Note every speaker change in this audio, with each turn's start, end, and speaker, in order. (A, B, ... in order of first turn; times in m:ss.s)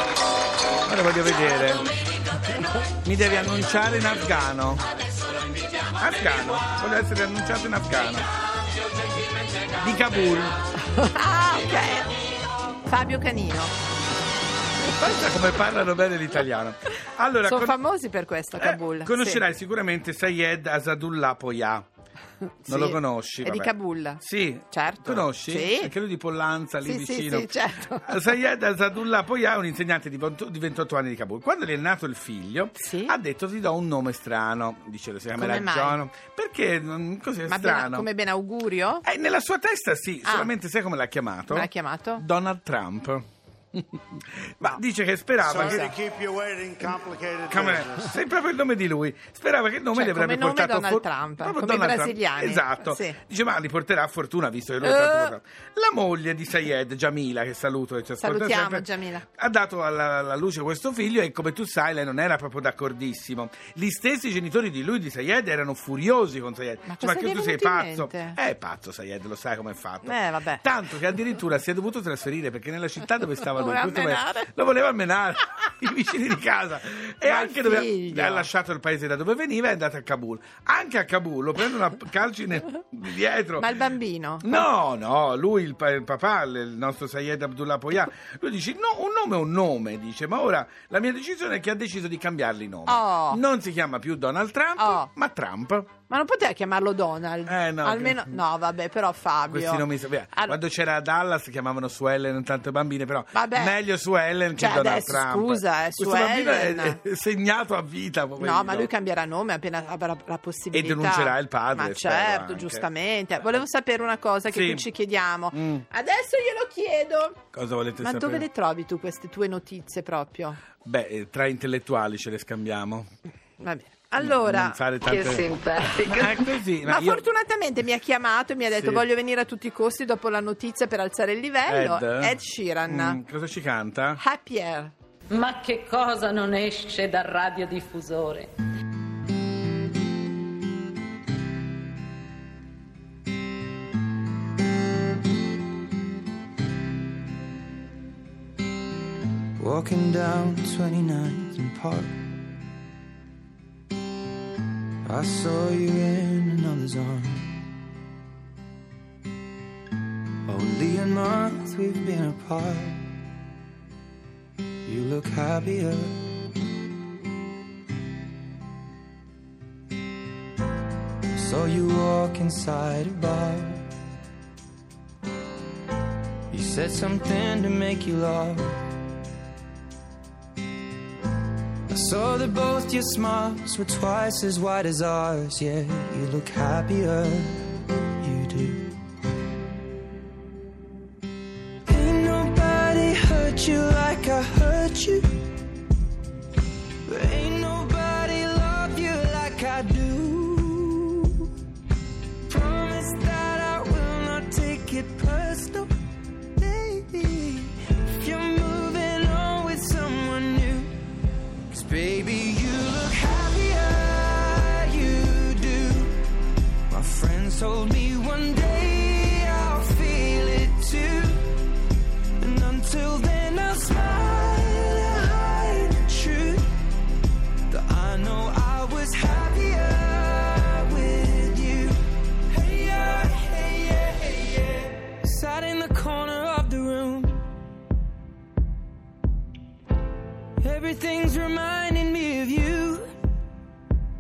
0:00.9-0:01.9 A
0:03.0-0:04.8 A
0:06.0-0:08.3 A
0:09.8-0:10.6 A
0:11.1-0:12.1 B
0:12.9-0:13.7 B
0:14.8-0:17.8 A
0:17.4-0:19.4 B
0:18.6-0:21.8 A
0:22.6-0:25.9 B
0:22.7-0:38.1 A
0:26.8-0:28.2 B
0:32.8-0:33.2 B
0:35.4-0:36.0 B
0:37.5-0:39.0 B
0:39.0-0:45.9 A
0:40.2-0:40.5 B
0:41.5-0:42.2 B
0:45.5-0:46.0 B
0:45.8-0:47.8 C
0:46.9-1:23.7 A
0:49.9-0:53.2 B
0:54.8-0:55.3 B
0:58.2-0:59.3 B
1:06.9-1:08.4 B
1:10.0-1:10.6 B
1:13.5-1:14.5 B
1:17.2-1:18.5 B
1:23.6-1:24.7 B
1:24.4-1:35.9 A
1:32.9-1:33.4 B
1:34.8-1:35.1 B
1:36.1-1:40.6 B
1:37.5-1:38.4 A
1:39.5-1:48.9 A
1:43.3-1:43.8 B
1:44.6-1:47.0 B
1:48.4-1:57.4 B
1:50.7-1:52.9 A
1:54.5-1:54.9 A
1:55.5-1:55.8 A
1:57.5-1:58.4 A
1:58.0-2:00.6 B
2:00.8-2:03.1 A
2:03.6-2:04.8 B
2:04.2-2:07.3 A
2:05.1-2:06.4 D
2:06.9-2:13.2 B
2:08.8-2:09.1 A
2:11.7-2:14.2 A
2:14.2-2:14.9 B
2:15.3-2:18.5 D
2:29.6-2:32.1 E
2:35.0-2:37.6 E
2:40.5-2:43.0 E
2:44.9-2:46.2 E
2:51.3-2:53.9 E
2:56.5-2:58.8 E
3:01.9-3:08.9 E
3:11.9-3:15.4 E
3:17.1-3:21.5 E
3:22.5-3:25.9 E
3:26.6-3:30.9 E
3:31.7-3:36.2 E
3:36.9-3:41.6 E
3:42.4-3:46.7 E
3:47.7-3:57.4 E
4:00.6-4:03.1 E